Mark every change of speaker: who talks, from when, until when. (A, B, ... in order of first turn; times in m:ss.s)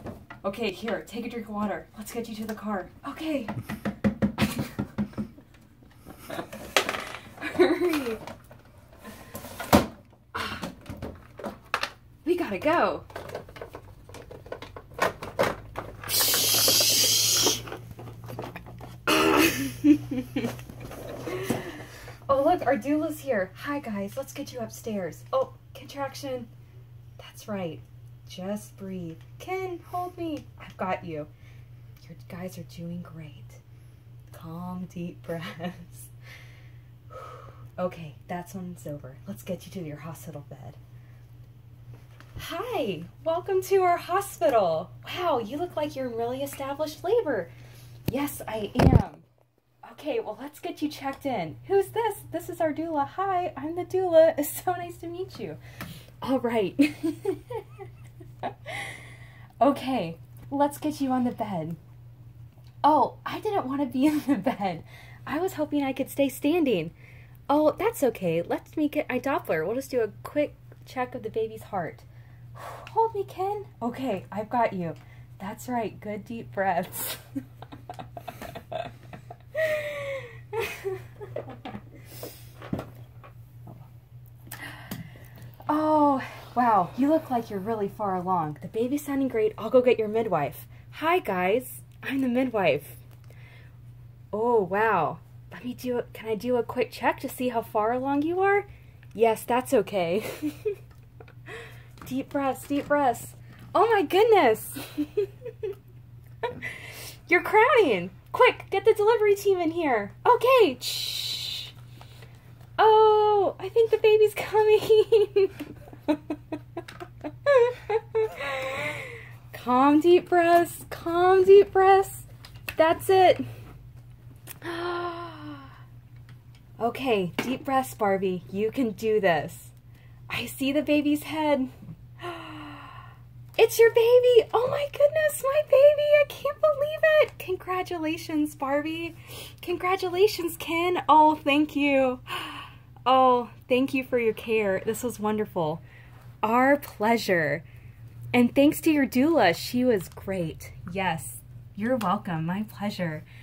0:00.4-0:03.5 A
0:07.4-0:08.2 A
0:10.3-0:10.7 A
0:12.2-0:13.1 A
0:16.1-0:17.2 A
0:19.1-0:20.5 A
0:21.3-0:21.6 A
0:22.3-0:26.5 A
0:27.2-0:31.3 A
0:32.0-0:33.6 A
0:34.3-0:36.1 A
0:37.1-0:40.8 A
0:42.4-0:47.5 A
0:48.1-0:49.3 A
0:49.8-0:55.6 A
0:56.2-0:57.8 A
0:58.4-0:59.0 A
0:59.6-1:01.8 A
1:02.8-1:06.9 A
1:07.5-1:17.2 A
1:19.5-1:21.3 A
1:25.7-1:33.0 A
1:34.3-1:40.8 A
1:41.5-1:45.7 A
1:46.4-1:51.7 A
1:52.8-1:56.8 A
1:57.4-2:03.5 A
2:04.6-2:05.7 A
2:06.8-2:09.7 A
2:10.3-2:13.0 A
2:13.6-2:25.8 A
2:26.4-2:27.6 A
2:28.3-2:33.2 A